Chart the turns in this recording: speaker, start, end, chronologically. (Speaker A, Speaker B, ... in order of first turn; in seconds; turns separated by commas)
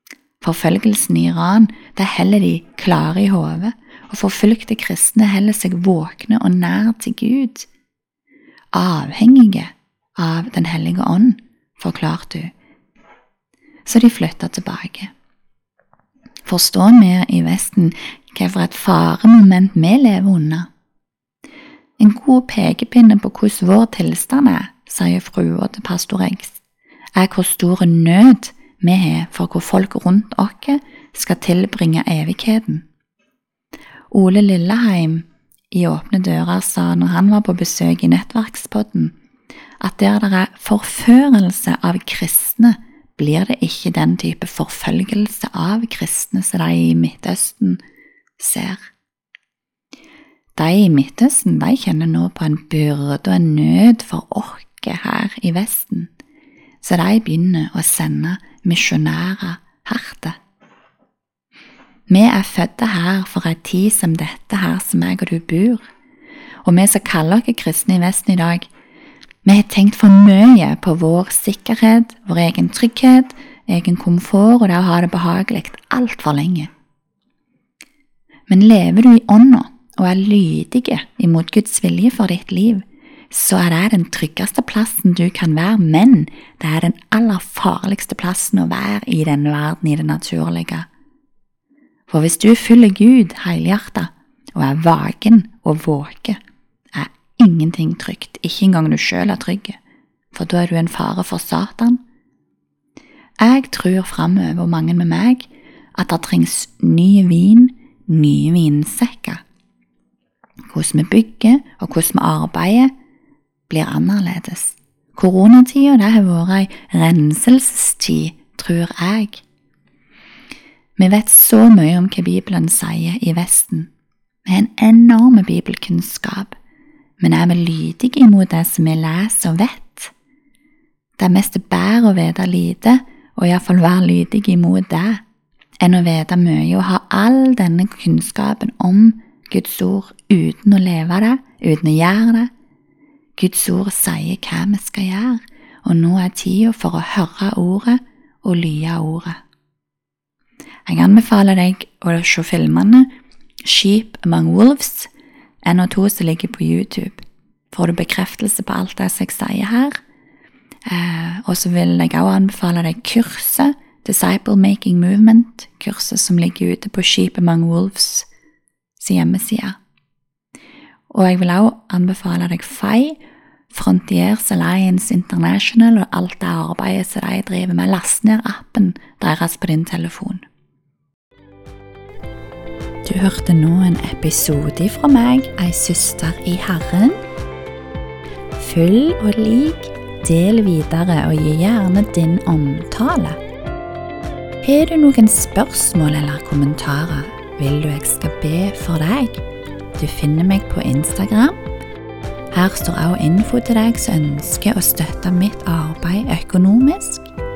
Speaker A: 0.4-7.7, Speaker A: 8.7-12.5, Speaker A: 13.9-15.1, Speaker A: 16.4-20.7, Speaker A: 22.0-26.6, Speaker A: 27.2-32.9, Speaker A: 34.1-39.1, Speaker A: 39.8-47.8, Speaker A: 48.4-48.9, Speaker A: 50.6-56.1, Speaker A: 56.8-60.4, Speaker A: 62.1-65.8, Speaker A: 66.7-68.7, Speaker A: 69.5-76.7, Speaker A: 78.5-90.9, Speaker A: 92.1-96.4, Speaker A: 96.9-99.8, Speaker A: 100.3-102.0, Speaker A: 103.4-109.4, Speaker A: 110.7-112.9, Speaker A: 113.7-119.4, Speaker A: 121.0-123.9, Speaker A: 124.5-126.6, Speaker A: 127.2-130.1, Speaker A: 131.2-135.2, Speaker A: 135.8-142.5, Speaker A: 143.4-149.4, Speaker A: 150.9-153.1, Speaker A: 153.7-155.1, Speaker A: 155.7-160.0, Speaker A: 160.9-168.3, Speaker A: 169.0-169.8, Speaker A: 171.1-173.2, Speaker A: 173.7-180.4, Speaker A: 183.1-187.2, Speaker A: 188.6-193.4, Speaker A: 194.6-199.4, Speaker A: 200.0-201.6, Speaker A: 202.5-207.3